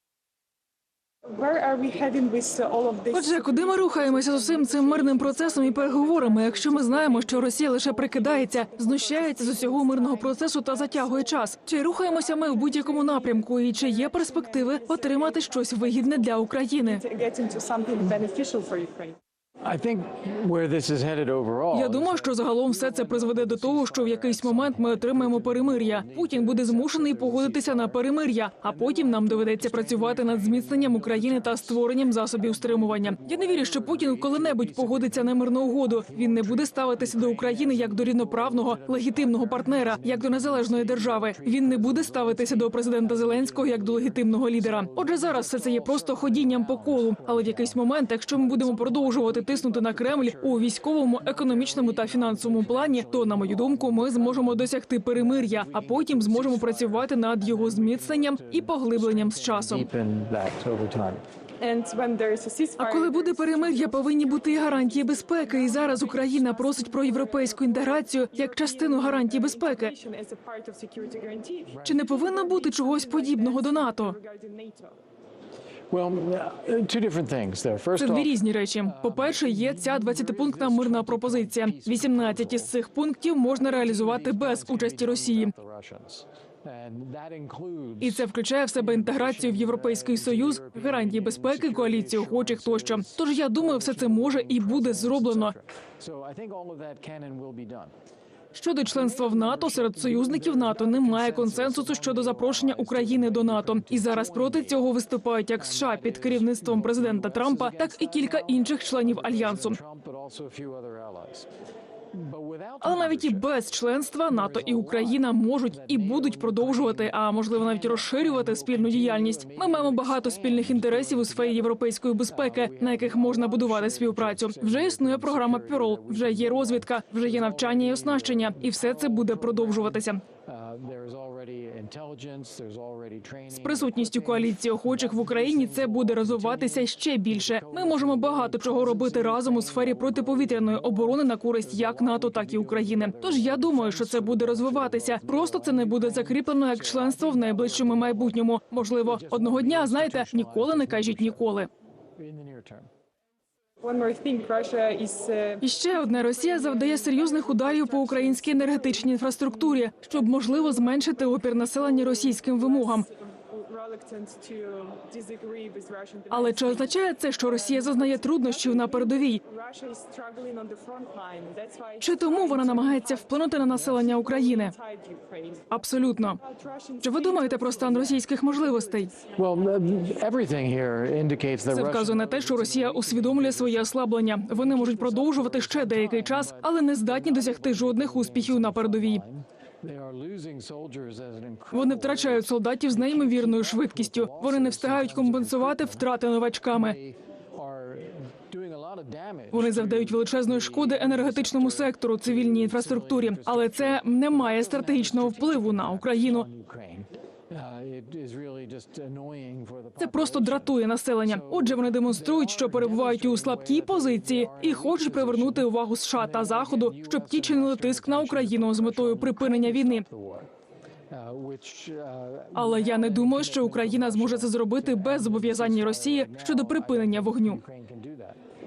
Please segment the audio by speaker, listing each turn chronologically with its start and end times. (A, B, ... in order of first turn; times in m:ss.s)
0:01.2-0:19.2 A
0:03.1-0:17.0 B
0:19.6-0:28.1 C
0:21.7-0:59.9 B
0:28.6-1:01.2 C
1:01.6-1:15.0 A
1:02.8-1:09.9 B
1:11.7-1:12.1 C
1:11.8-1:14.2 B
1:15.9-1:22.8 C
1:18.0-1:25.5 B
1:23.4-1:37.9 C
1:28.0-1:35.6 B
1:38.5-1:49.8 B
1:38.8-1:44.9 C
1:45.6-1:51.5 C
1:52.1-1:53.6 C
1:52.8-2:10.2 B
1:54.3-2:31.6 C
2:13.5-2:31.7 B
2:32.2-2:32.9 C
2:33.8-2:55.8 A
2:35.6-2:43.1 B
2:46.3-2:49.4 B
2:52.0-2:54.7 B
2:55.7-2:56.4 B
2:56.4-2:59.3 A
2:57.0-2:59.1 B
2:59.3-3:40.5 C
3:01.7-3:09.2 B
3:11.7-3:17.0 B
3:19.5-3:26.5 B
3:30.0-3:40.0 B
3:41.1-3:48.4 C
3:42.6-3:47.6 B